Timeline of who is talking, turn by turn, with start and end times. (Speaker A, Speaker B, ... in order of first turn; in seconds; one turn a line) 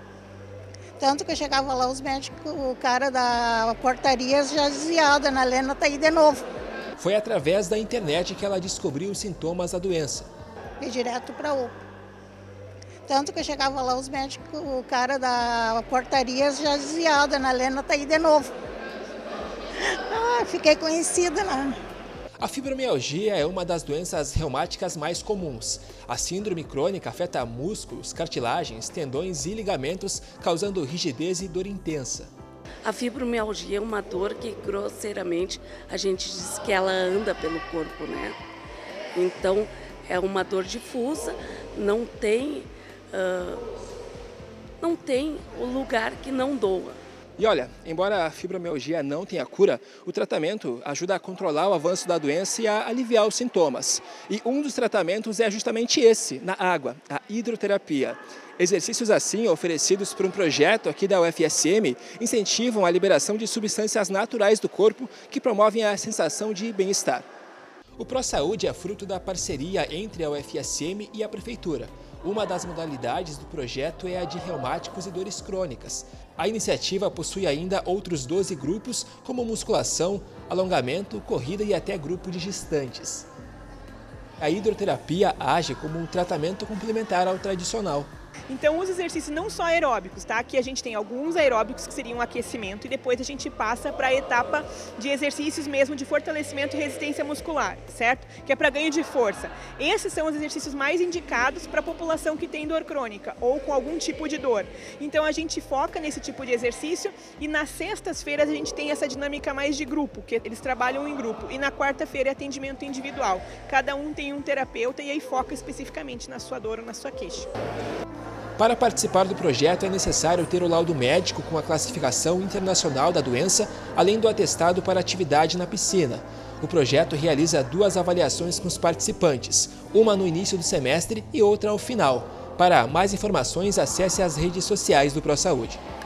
Speaker A: 1.0-6.4
Speaker B: 7.0-10.3
Speaker A: 10.8-11.7
Speaker A: 13.1-18.5
Speaker A: 19.8-21.7
Speaker B: 22.4-32.3
Speaker C: 32.8-38.4
Speaker C: 39.1-43.6
Speaker C: 44.8-47.0
Speaker B: 47.4-67.3
Speaker B: 68.0-83.3
Speaker B: 84.4-88.1
Speaker D: 88.5-117.5
Speaker B: 118.6-135.8